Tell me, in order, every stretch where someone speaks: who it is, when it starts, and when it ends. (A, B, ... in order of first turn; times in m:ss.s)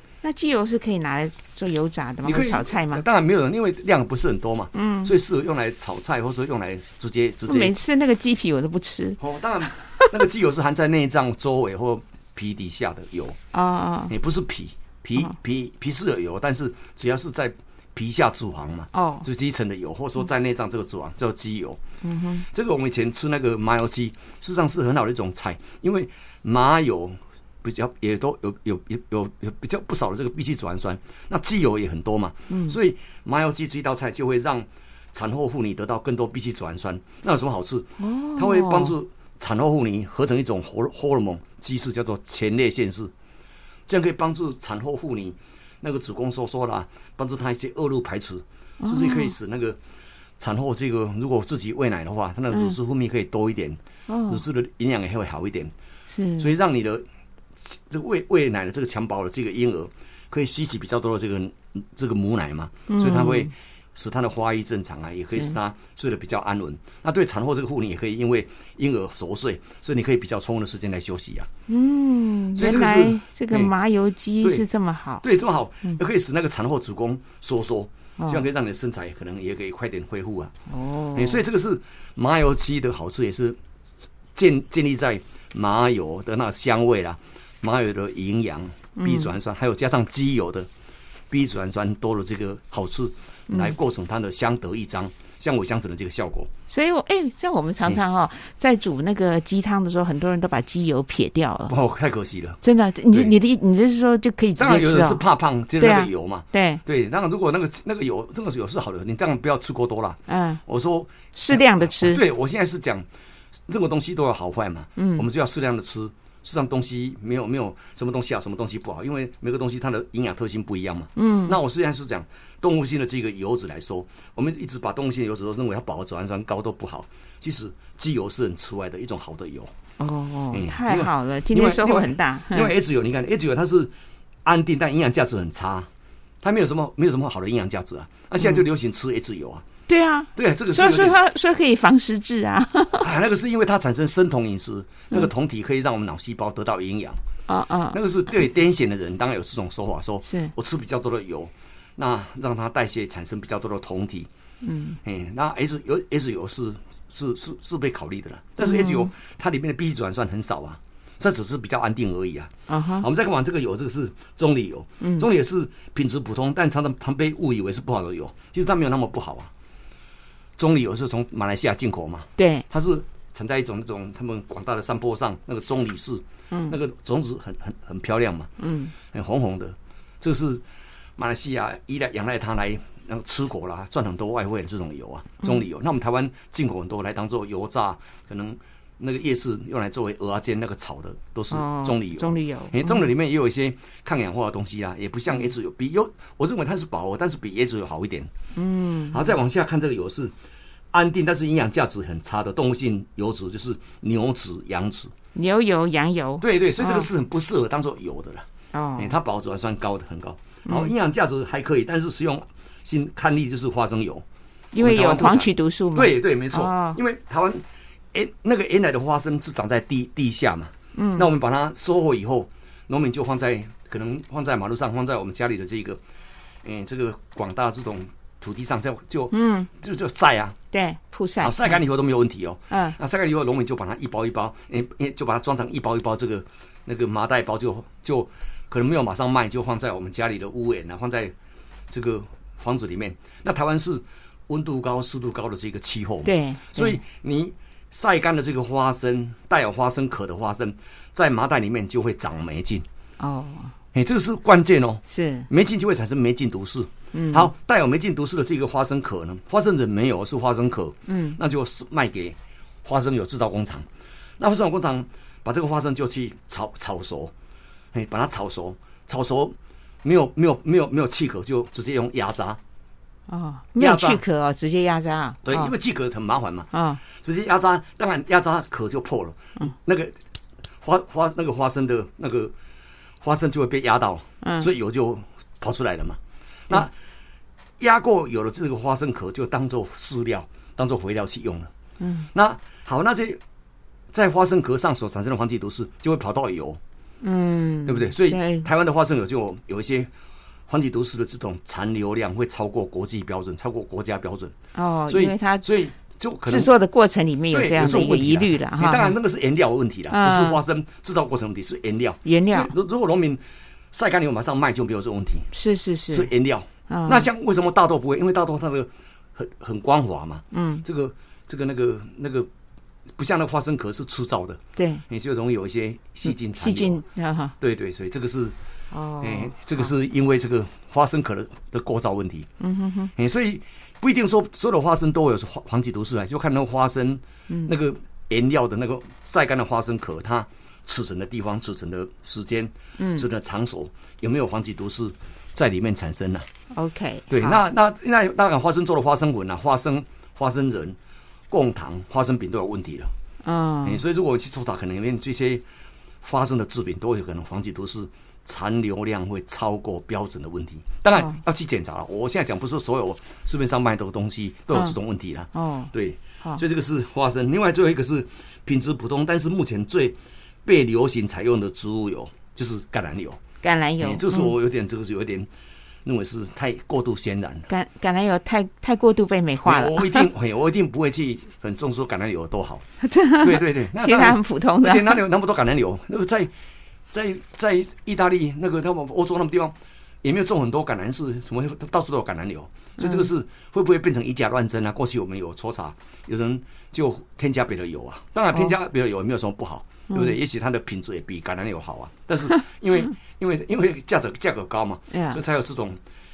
0:00.2-0:03.0 A
0:02.2-0:07.8 B
0:04.7-0:05.1 A
0:07.5-0:09.2 A
0:09.2-0:13.4 B
0:13.5-0:14.1 A
0:14.1-0:21.8 B
0:18.9-0:19.3 A
0:22.0-0:22.4 A
0:22.5-0:43.1 B
0:32.5-0:32.8 A
0:38.0-0:39.0 A
0:43.9-0:49.8 B
0:48.8-0:49.3 A
0:50.4-0:55.7 B
0:54.1-0:54.4 A
0:56.1-0:56.5 A
0:56.4-0:57.0 B
0:57.6-1:11.5 B
1:02.9-1:03.5 A
1:11.7-1:15.2 A
1:12.6-1:13.7 B
1:15.2-1:20.5 B
1:18.2-1:18.4 A
1:20.7-1:21.4 A
1:21.1-1:23.6 B
1:24.3-1:30.7 B
1:29.0-1:29.3 A
1:31.3-1:36.5 B
1:33.5-1:33.8 A
1:36.7-1:41.7 A
1:41.7-1:42.6 B
1:42.6-1:45.2 A
1:44.6-1:53.0 B
1:45.8-1:46.8 A
1:50.3-1:50.6 A
1:51.3-1:52.2 A
1:53.7-2:09.7 B
1:55.0-1:55.2 A
2:01.2-2:01.6 A
2:10.0-2:12.7 A
2:10.5-2:13.9 B
2:14.4-2:15.9 B
2:16.4-2:19.6 B
2:19.9-2:23.1 A
2:20.4-2:21.2 B
2:23.0-2:27.2 B
2:27.5-2:28.0 A
2:27.9-2:34.3 B
2:30.3-2:30.5 A
2:34.6-2:35.0 A
2:35.0-2:49.5 B
2:38.6-2:39.1 A
2:42.7-2:43.1 A
2:45.0-2:45.3 A
2:50.6-2:58.5 B
2:52.4-2:52.7 A
2:56.5-2:56.8 A
2:58.6-2:58.9 A
2:59.1-3:00.6 B
3:01.2-3:18.3 B
3:11.5-3:13.1 A
3:18.6-3:19.3 A
3:19.1-3:20.3 B
3:20.9-3:25.1 B
3:25.3-3:27.1 A
3:26.4-3:28.4 B
3:28.7-3:29.2 A
3:29.0-3:34.2 B
3:30.7-3:30.9 A
3:34.7-3:37.0 A
3:34.8-3:46.0 B
3:40.9-3:41.3 A
3:46.6-3:50.6 B
3:49.3-3:49.7 A
3:50.7-3:51.8 A
3:51.4-4:01.3 B
3:52.7-3:53.0 A
4:01.9-4:12.8 B
4:06.2-4:07.0 A
4:13.2-4:13.7 A
4:13.9-4:23.8 B
4:15.1-4:15.5 A
4:17.1-4:17.5 A
4:21.1-4:21.4 A
4:24.4-4:27.3 B
4:27.9-4:32.6 B
4:33.3-4:35.7 A
4:33.8-4:34.2 B
4:35.4-4:40.2 B
4:36.7-4:37.0 A
4:40.8-4:42.5 B
4:43.2-4:46.9 B
4:44.4-4:44.7 A
4:47.8-4:51.7 B
4:52.0-4:52.3 A
4:52.3-4:53.4 B
4:54.1-4:56.8 B
4:57.2-4:58.7 A
4:57.8-5:00.1 B
5:00.7-5:04.5 B
5:04.7-5:05.6 A
5:05.1-5:06.7 B
5:06.4-5:09.2 A
5:07.5-5:13.4 B
5:10.1-5:10.6 A
5:12.2-5:12.7 A
5:13.9-5:15.5 B
5:15.5-5:16.3 A
5:16.1-5:22.5 B
5:16.9-5:17.3 A
5:20.5-5:20.8 A
5:23.2-5:27.0 B
5:24.8-5:25.0 A
5:26.2-5:27.5 A
5:27.6-5:28.5 B
5:28.9-5:29.9 A
5:29.2-5:32.5 B
5:32.6-5:33.1 A
5:33.2-5:46.5 B
5:43.0-5:43.2 A
5:46.7-5:47.6 A
5:47.3-5:51.0 B
5:51.5-5:53.1 B
5:53.4-5:54.0 A
5:53.8-5:55.6 B
5:56.2-6:13.4 B
6:05.5-6:05.9 A
6:13.6-6:14.5 A
6:14.0-6:15.5 B
6:16.0-6:17.7 B
6:17.7-6:20.3 A
6:19.6-6:26.5 B
6:23.0-6:25.2 A
6:27.1-6:46.0 B
6:33.0-6:33.3 A
6:40.1-6:40.4 A
6:45.1-6:45.4 A